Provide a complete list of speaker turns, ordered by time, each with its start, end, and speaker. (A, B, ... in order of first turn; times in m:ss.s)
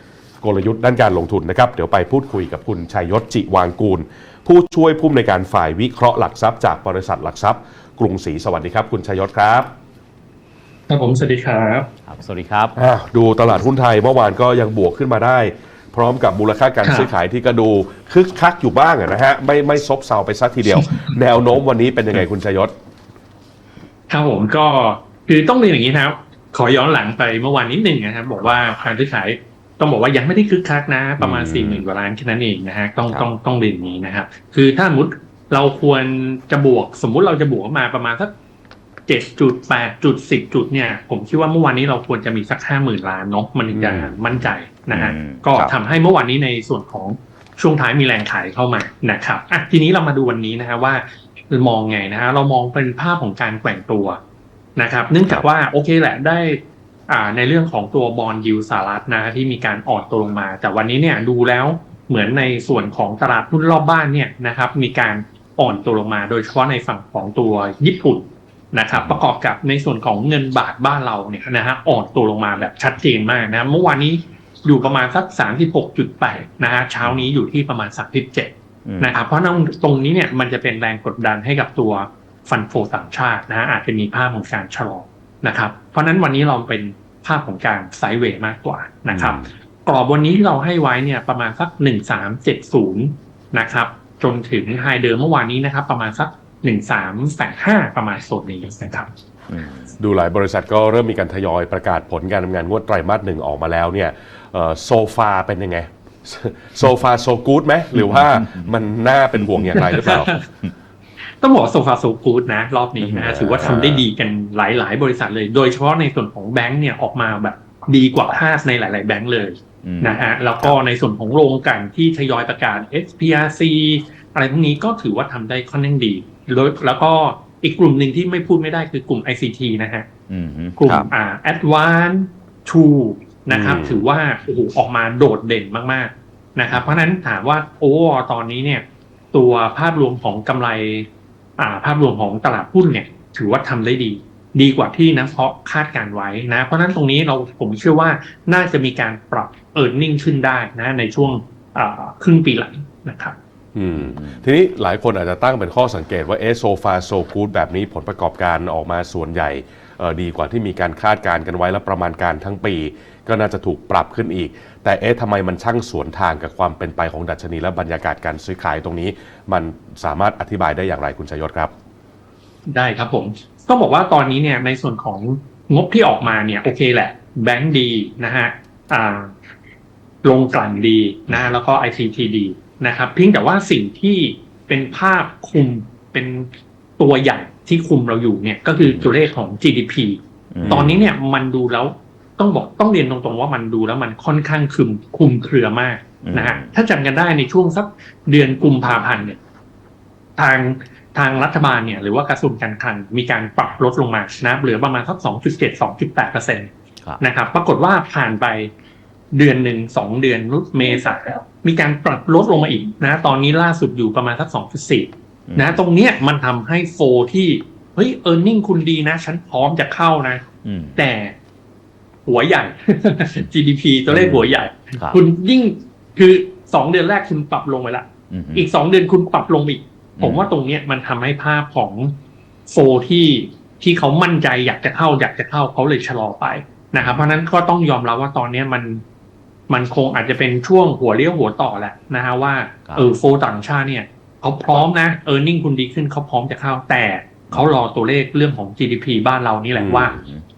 0:00.4-0:09.7 A
0:10.9-0:11.9 B
0:12.1-0:12.8 C
0:12.8-0:22.7 A
0:16.8-0:17.1 B
0:20.7-0:21.1 B
0:24.1-0:38.3 B
0:31.2-0:31.8 A
0:39.1-0:54.2 B
0:43.7-0:44.2 A
0:44.9-0:45.7 C
0:54.8-1:39.1 B
1:18.9-1:19.2 C
1:29.1-1:29.5 A
1:39.5-1:40.0 C
1:40.0-1:50.4 A
1:48.0-1:48.7 C
1:49.4-1:50.7 C
1:49.7-1:50.4 B
1:51.4-2:10.1 B
1:53.0-1:53.8 C
1:53.3-1:54.1 A
1:59.8-2:00.8 C
2:10.3-2:11.1 C
2:10.8-2:21.1 B
2:13.5-2:14.0 A
2:16.7-2:17.1 C
2:21.6-2:33.4 B
2:33.8-2:51.7 A
2:34.0-2:34.4 C
2:52.7-2:59.3 B
3:00.2-3:19.4 B
3:08.8-3:09.1 C
3:10.5-3:10.9 C
3:10.6-3:11.0 A
3:16.2-3:16.7 C
3:20.4-3:28.7 B
3:29.3-3:40.4 B
3:35.5-3:35.8 C
3:40.6-3:41.0 C
3:41.0-3:41.4 B
3:42.3-3:52.2 B
3:44.1-3:45.2 C
3:48.3-3:48.7 C
3:50.2-3:50.5 C
3:52.7-3:59.0 B
3:57.0-3:57.3 C
3:59.7-4:10.2 B
4:09.8-4:10.1 A
4:10.1-4:10.4 C